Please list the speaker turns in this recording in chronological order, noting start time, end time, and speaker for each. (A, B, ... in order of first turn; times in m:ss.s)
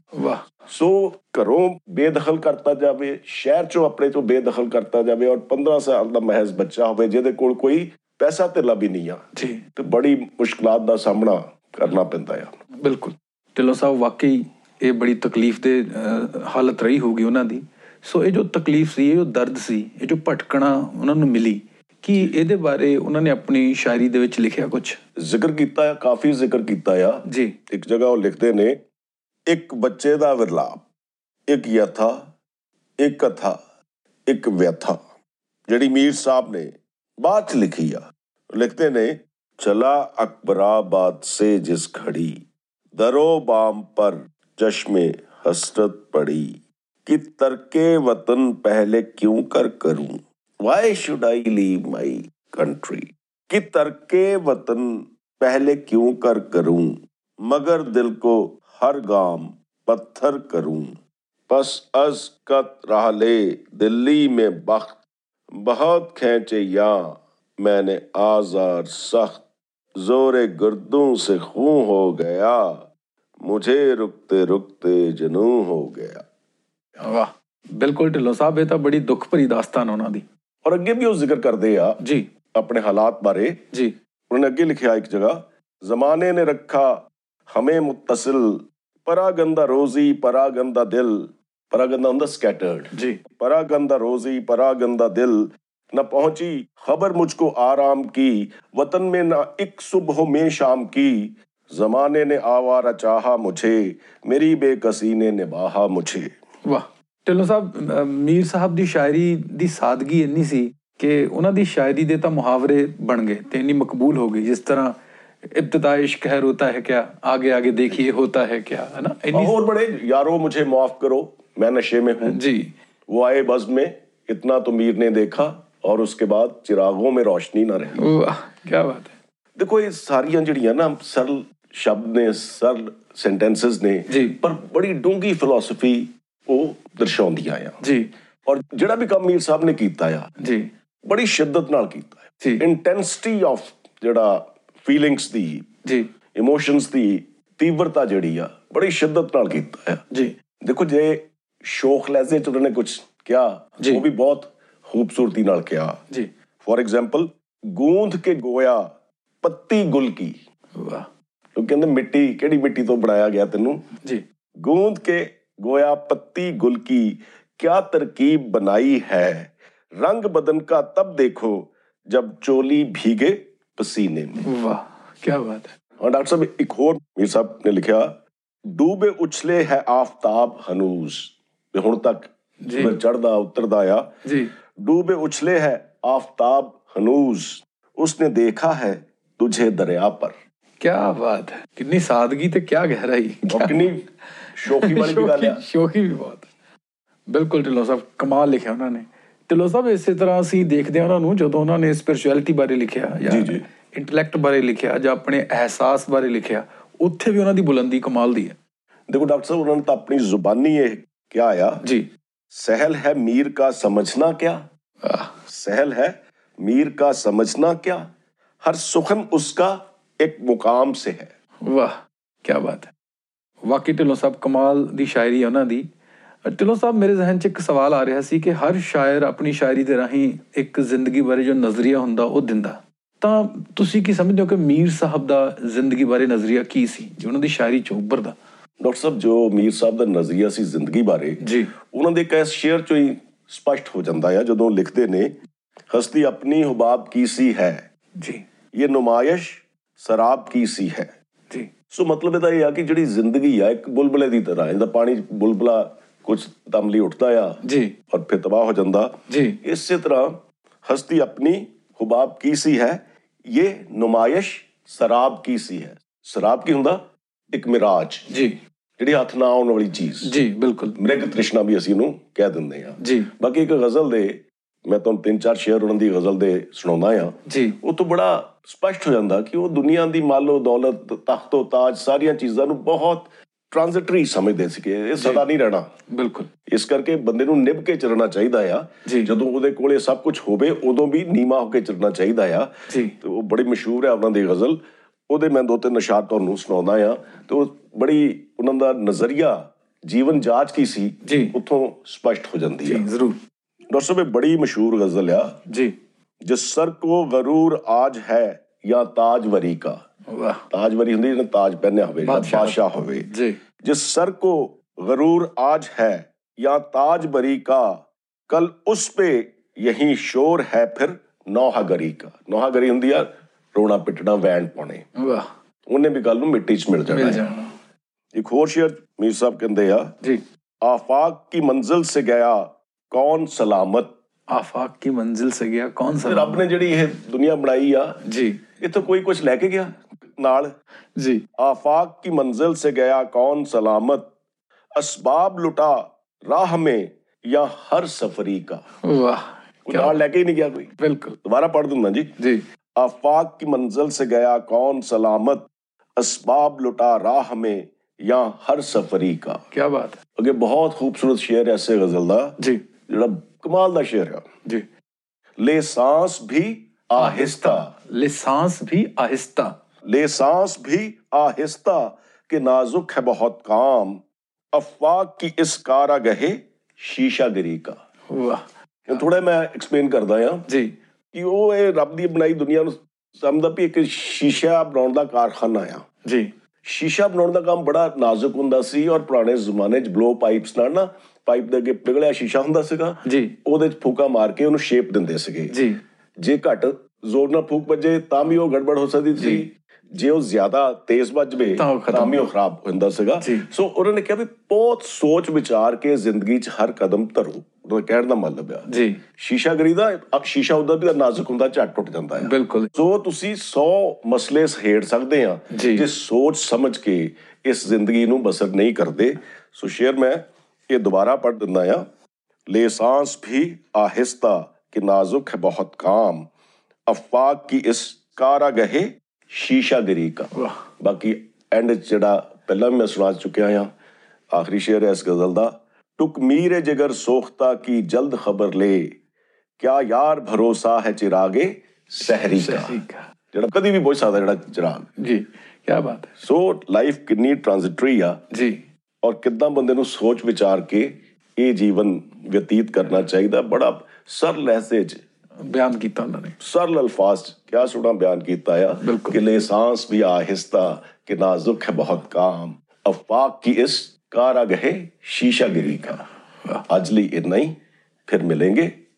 0:00.2-0:00.4 A
0:00.7-0:09.2 B
0:09.4-0:09.6 A
0:09.8-0:12.5 B
0:12.8-0:25.0 A
0:25.2-0:28.8 B
0:27.3-0:27.5 A
0:29.5-0:30.8 B
0:31.5-0:32.2 B
0:33.0-0:33.6 B
0:34.3-0:35.0 B
0:35.7-0:42.4 B
0:43.0-1:01.0 B
1:01.5-1:05.0 B
1:05.6-1:09.4 B
1:10.0-1:12.8 B
1:13.4-1:16.2 B
1:17.0-1:20.2 A
1:20.6-1:22.0 B
1:22.0-1:22.3 A
1:22.6-1:23.6 B
1:24.3-1:46.3 B
1:32.9-1:33.2 A
1:46.6-1:55.0 A
1:55.5-1:59.5 A
1:59.3-2:02.4 B
2:02.3-2:02.7 A
2:03.1-2:08.0 B
2:08.0-2:09.1 A
2:09.6-2:17.8 B
2:14.1-2:14.4 A
2:17.8-2:18.1 A
2:18.5-2:20.3 B
2:20.4-2:20.7 A
2:21.1-2:25.7 B
2:26.4-2:30.0 B
2:30.6-2:36.0 B
2:36.6-2:38.8 B
2:39.4-2:40.4 B
2:40.8-2:41.1 A
2:41.6-2:43.8 B
2:44.6-2:54.5 B
2:54.4-2:55.7 A
2:56.0-2:58.1 B
2:58.7-3:04.1 B
3:02.6-3:03.0 A
3:04.2-3:04.5 A
3:04.8-3:10.4 B
3:10.8-3:13.9 A
3:13.5-3:14.0 B
3:14.4-3:16.5 A
3:14.6-3:15.6 B
3:17.3-3:28.6 A
3:23.3-3:23.6 B
3:29.1-3:31.8 B
3:31.8-3:32.1 A
3:32.5-3:34.6 B
3:35.0-3:35.3 A
3:35.5-3:38.1 B
3:38.6-3:41.3 B
3:41.6-3:42.9 A
3:43.6-3:45.9 A
3:46.5-3:58.4 A
3:58.8-4:05.3 B
4:01.4-4:01.7 A
4:05.9-4:07.8 B
4:08.7-4:11.1 B
4:11.9-4:17.6 B
4:17.6-4:17.9 A
4:18.1-4:28.3 B
4:19.3-4:19.6 A
4:28.3-4:28.6 A
4:29.0-4:30.4 B
4:30.2-4:31.0 A
4:31.0-4:45.9 B
4:33.0-4:33.3 A
4:37.5-4:37.8 A
4:45.2-4:45.4 A
4:46.1-4:46.5 A
4:46.7-4:54.8 B
4:49.0-4:49.3 A
4:52.9-4:53.2 A
4:55.3-5:03.1 B
5:01.2-5:01.6 A
5:02.8-5:03.4 A
5:03.9-5:05.6 B
5:06.5-5:10.0 B
5:10.3-5:10.6 A
5:10.7-5:13.3 B
5:12.2-5:13.6 A
5:13.8-5:25.0 B
5:25.2-5:25.5 A
5:25.9-5:27.5 B
5:27.1-5:27.7 A
5:28.4-5:30.1 B
5:30.8-5:34.1 B
5:34.5-5:36.6 A
5:36.2-5:38.2 B
5:38.2-5:38.6 A
5:38.8-5:40.7 B
5:41.2-5:41.4 A
5:41.6-5:44.3 B
5:45.0-5:48.8 B
5:49.0-5:50.2 A
5:49.9-5:50.9 B
5:51.0-5:51.4 A
5:51.4-5:52.3 B
5:53.0-5:59.6 B
5:59.7-6:00.2 A
6:00.4-6:02.6 B
6:03.1-6:04.4 B
6:05.6-6:07.9 B
6:07.2-6:09.8 A
6:10.1-6:14.2 B
6:14.7-6:18.0 B
6:18.3-6:18.7 A
6:19.1-6:20.7 B
6:20.7-6:20.9 A
6:21.3-6:26.0 B
6:26.2-6:26.5 A
6:26.8-6:35.8 B
6:33.2-6:33.5 A
6:35.7-6:36.0 A
6:36.4-6:48.9 B
6:39.4-6:39.6 A
6:41.8-6:42.4 A
6:43.4-6:43.7 A
6:48.9-6:49.2 A
6:49.4-7:02.0 B
6:52.4-6:52.9 A
6:55.7-6:56.1 A
7:02.7-7:06.5 B
7:07.1-7:13.9 B
7:14.5-7:19.1 B
7:19.8-7:23.0 B
7:22.3-7:23.3 A
7:23.5-7:25.1 B
7:25.2-7:26.4 A
7:26.4-7:28.4 B
7:28.5-7:28.8 A
7:29.2-7:35.2 B
7:35.6-7:36.6 A
7:36.6-7:46.2 B
7:39.0-7:39.4 A
7:46.9-7:47.8 B
7:48.3-7:48.9 B